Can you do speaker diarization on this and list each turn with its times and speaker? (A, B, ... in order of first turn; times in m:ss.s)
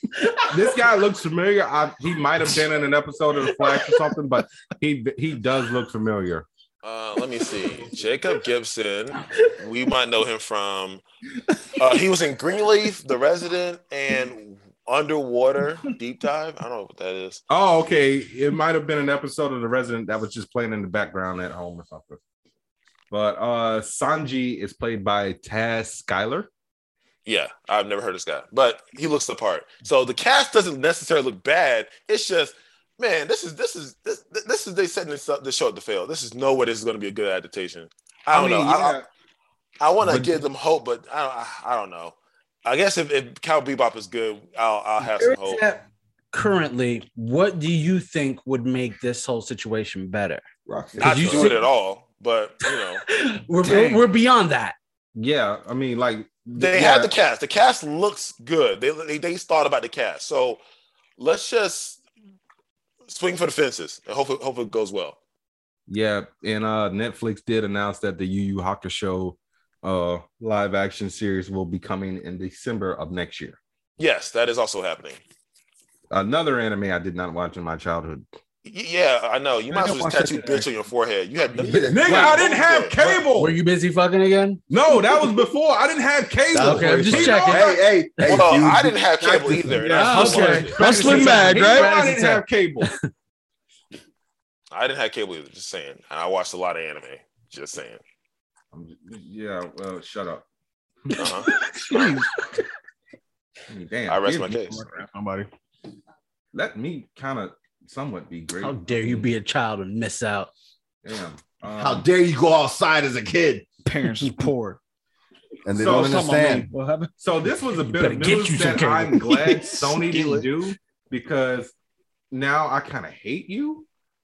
0:00.5-0:06.4 A
0:06.8-0:11.0 B
0:11.8-0:17.4 B
0:17.5-0:22.2 A
0:23.1-0:26.5 A
0:27.2-0:39.0 B
0:38.3-0:39.0 A
0:39.8-0:45.6 B
0:40.0-0:40.4 A
0:45.0-0:50.4 C
0:50.7-0:51.5 D
0:51.0-0:51.6 C
0:51.0-0:53.0 B
0:53.1-0:54.8 C
0:53.6-0:54.0 E
0:55.1-0:57.1 A
0:56.6-1:00.6 B
1:01.2-1:02.0 B
1:03.1-1:05.2 B
1:05.9-1:13.6 A
1:14.0-1:15.2 B
1:16.1-1:18.3 A
1:18.6-1:23.0 B
1:19.7-1:20.6 E
1:21.5-1:22.4 D
1:21.9-1:23.5 A
1:23.3-1:25.2 C
1:24.7-1:27.8 A
1:26.5-1:30.0 D
1:26.6-1:28.5 C
1:28.3-1:31.1 B
1:29.9-1:31.9 E
1:29.9-1:33.0 C
1:30.2-1:32.9 A
1:34.7-1:38.0 B
1:38.7-1:40.4 A
1:41.2-1:42.2 B
1:41.2-1:42.4 E
1:43.7-1:44.7 A
1:44.1-1:44.8 B
1:44.6-1:45.5 E
1:46.5-1:49.3 A
1:48.6-1:50.5 C
1:51.0-1:52.0 A
1:51.7-1:53.6 D
1:53.8-1:54.8 E
1:54.2-1:54.5 C
1:55.6-1:56.7 D
1:55.8-1:56.6 A
1:55.8-1:57.1 E
1:57.2-2:01.7 A
1:57.8-2:00.4 C
2:00.1-2:00.4 E
2:02.3-2:03.9 A